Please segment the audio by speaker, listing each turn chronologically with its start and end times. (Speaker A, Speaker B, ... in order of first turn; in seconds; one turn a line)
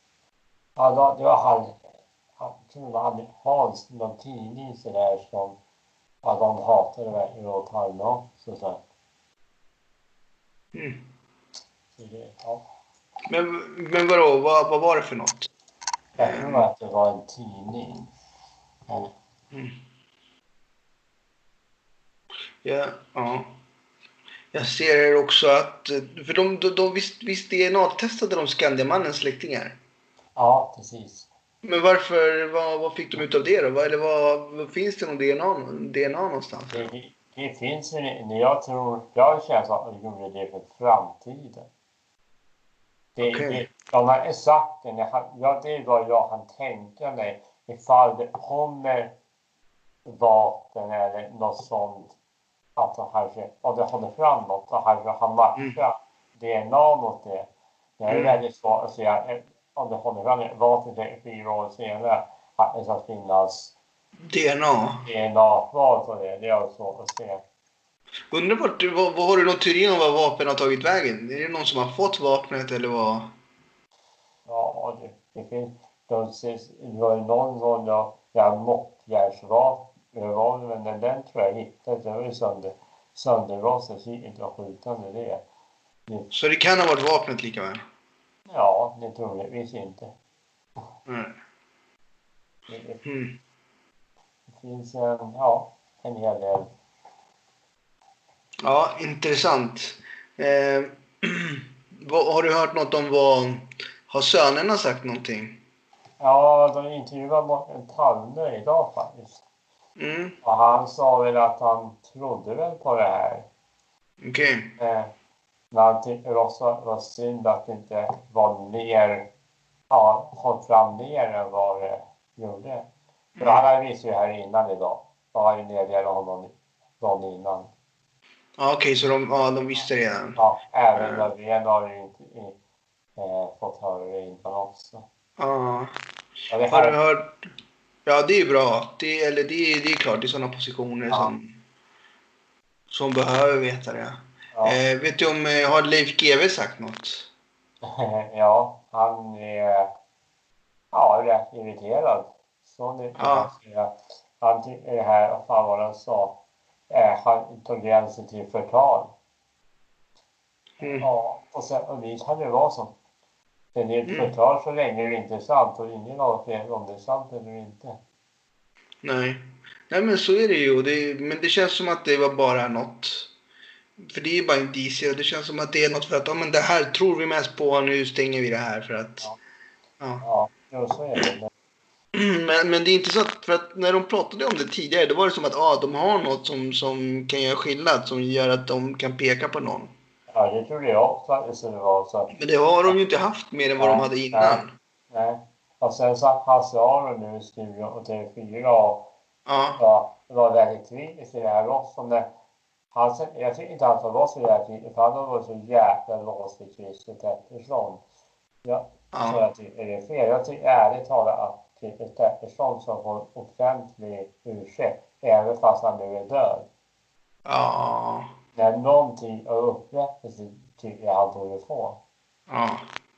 Speaker A: 0.8-1.8
Speaker A: 2.4-5.6
Speaker A: 6.2-8.8
Speaker B: 10.7-11.0
Speaker A: 11.9-12.6
Speaker B: 13.3-15.5
Speaker B: 16.2-16.7
Speaker A: 16.2-18.1
Speaker A: 18.9-19.1
Speaker B: 22.6-23.6
Speaker B: 24.5-29.8
Speaker A: 30.4-31.3
Speaker B: 31.6-36.9
Speaker A: 36.7-41.7
Speaker A: 43.1-49.1
Speaker B: 43.2-43.6
Speaker A: 50.0-52.1
Speaker A: 52.8-63.7
Speaker B: 58.1-58.4
Speaker B: 64.2-65.0
Speaker A: 65.0-67.4
Speaker B: 68.3-73.3
Speaker A: 74.5-85.4
Speaker B: 86.3-87.8
Speaker A: 88.5-90.1
Speaker B: 91.0-91.3
Speaker A: 92.7-93.0
Speaker B: 93.0-93.4
Speaker A: 94.5-96.7
Speaker B: 98.6-105.6
Speaker A: 106.2-109.4
Speaker B: 110.0-110.4
Speaker A: 110.4-113.5
Speaker B: 114.2-114.7
Speaker A: 114.8-115.1
Speaker A: 115.7-119.2
Speaker A: 119.9-122.8
Speaker B: 123.4-123.7
Speaker A: 123.4-127.7
Speaker B: 128.6-130.4
Speaker A: 130.4-132.6
Speaker B: 130.9-131.3
Speaker A: 133.2-135.0
Speaker B: 135.4-135.9
Speaker A: 136.5-137.0
Speaker B: 136.7-137.4
Speaker B: 138.1-141.5
Speaker B: 142.9-147.3
Speaker A: 144.5-144.8
Speaker A: 147.9-149.9
Speaker A: 150.9-156.3
Speaker B: 153.2-153.5
Speaker A: 156.9-159.1
Speaker B: 160.8-161.1
Speaker A: 160.8-162.9
Speaker A: 163.7-167.9
Speaker B: 164.1-164.3
Speaker B: 169.0-173.3
Speaker B: 174.0-179.3
Speaker A: 180.2-181.5
Speaker B: 182.1-189.9
Speaker A: 190.3-192.3
Speaker B: 192.3-194.8
Speaker A: 193.8-199.0
Speaker B: 199.4-199.8
Speaker A: 199.8-202.3
Speaker A: 202.9-208.0
Speaker A: 208.6-216.7
Speaker B: 209.1-209.4
Speaker B: 217.4-218.3
Speaker A: 218.5-222.0
Speaker B: 222.5-222.9